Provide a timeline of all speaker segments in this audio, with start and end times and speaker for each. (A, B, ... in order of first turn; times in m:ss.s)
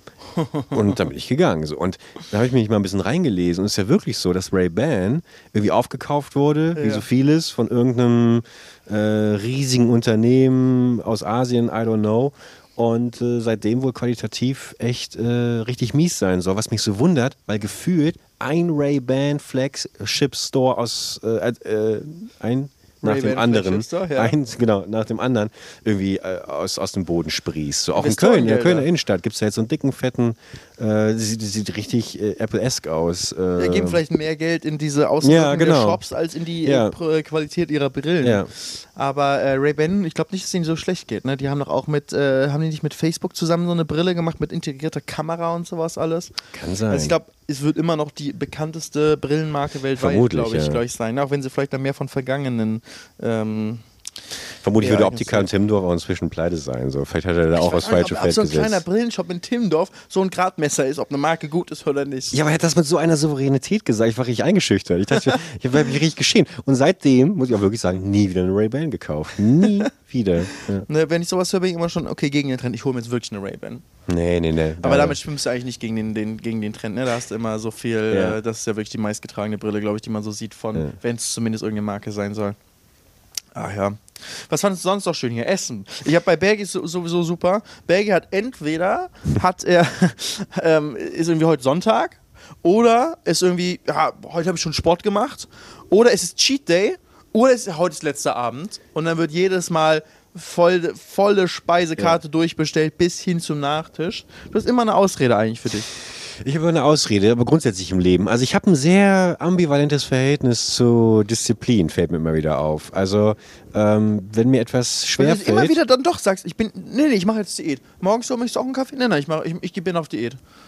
0:00.3-0:01.0 A
0:00.7-0:34.0 B
0:06.8-0:07.0 A
0:23.0-0:24.3 A
0:27.9-0:28.9 A
0:33.6-0:46.3 A
0:35.2-0:36.0 B
0:36.6-0:36.9 B
0:38.2-0:38.5 B
0:46.5-0:47.1 B
0:46.9-0:53.8 A
0:50.0-0:50.8 B
0:54.6-0:58.8 B
0:54.8-0:55.5 A
0:57.5-1:02.4 A
1:02.3-1:10.8 B
1:10.8-1:13.8 A
1:14.1-1:15.2 B
1:14.8-1:22.6 A
1:18.1-1:18.4 B
1:23.5-1:45.9 A
1:46.3-1:55.8 B
1:55.2-2:00.4 A